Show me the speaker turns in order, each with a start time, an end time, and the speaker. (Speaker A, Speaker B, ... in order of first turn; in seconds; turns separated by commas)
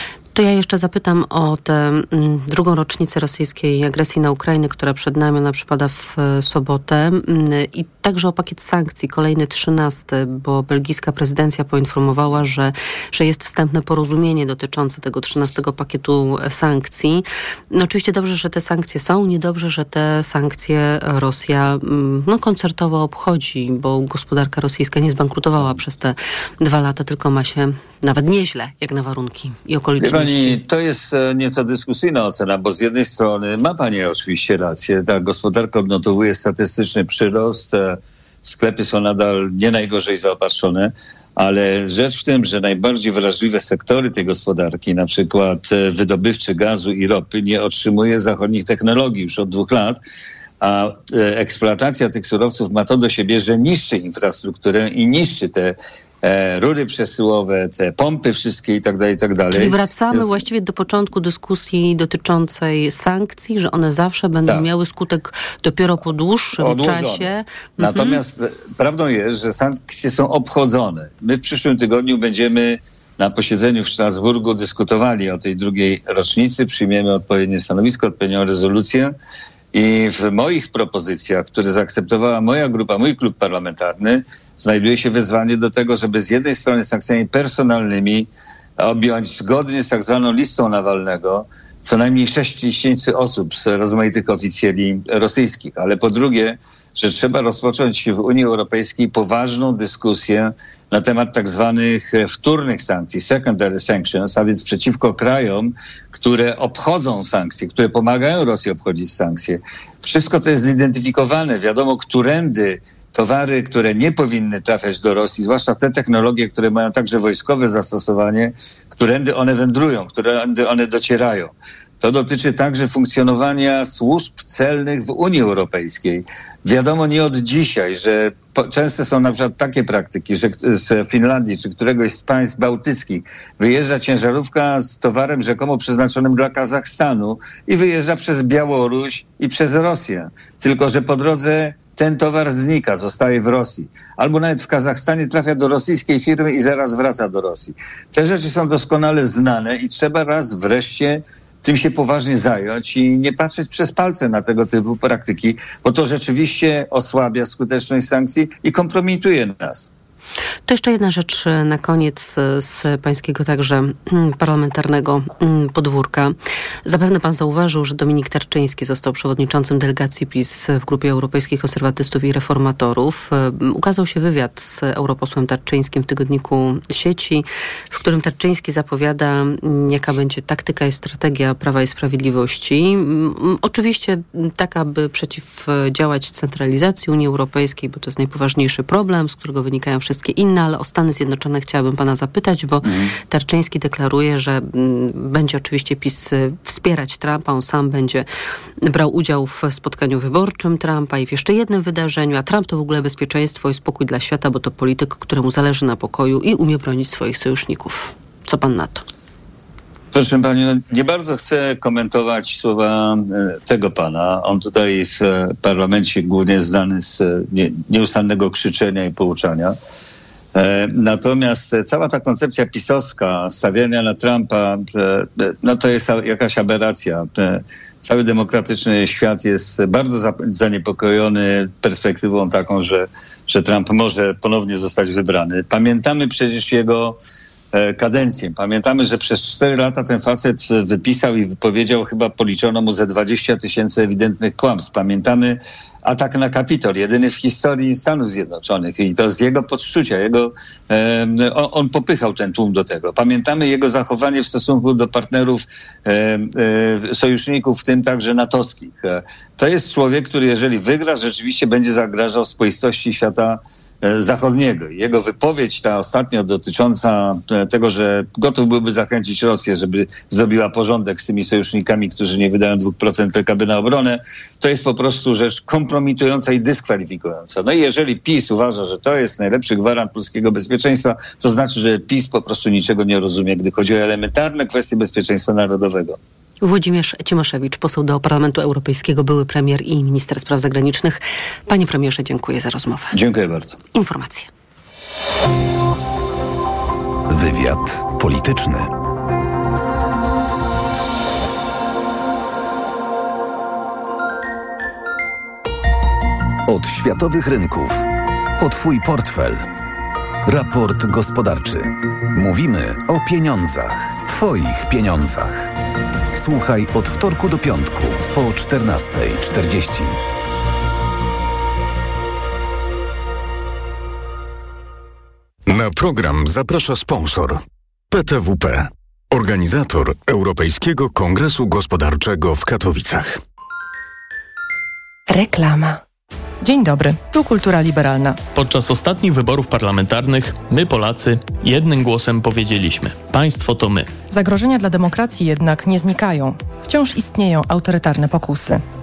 Speaker A: 0.3-30.6, Speaker B: 30.0-50.0, Speaker B: 50.6-60.3, Speaker A: 59.5-68.2, Speaker B: 66.6-79.1, Speaker B: 79.7-159.9, Speaker A: 160.7-198.3, Speaker B: 192.8-193.1, Speaker A: 198.8-209.1, Speaker B: 210.1-219.8, Speaker B: 220.6-237.2, Speaker B: 237.7-286.2, Speaker A: 286.6-293.1, Speaker B: 293.1-293.8, Speaker A: 293.9-294.5, Speaker C: 297.3-298.9, Speaker C: 306.7-309.7, Speaker C: 310.5-315.7, Speaker C: 316.4-320.2, Speaker D: 325.7-327.6, Speaker D: 328.1-333.3, Speaker E: 336.6-338.4, Speaker F: 338.5-344.1, Speaker E: 344.3-348.8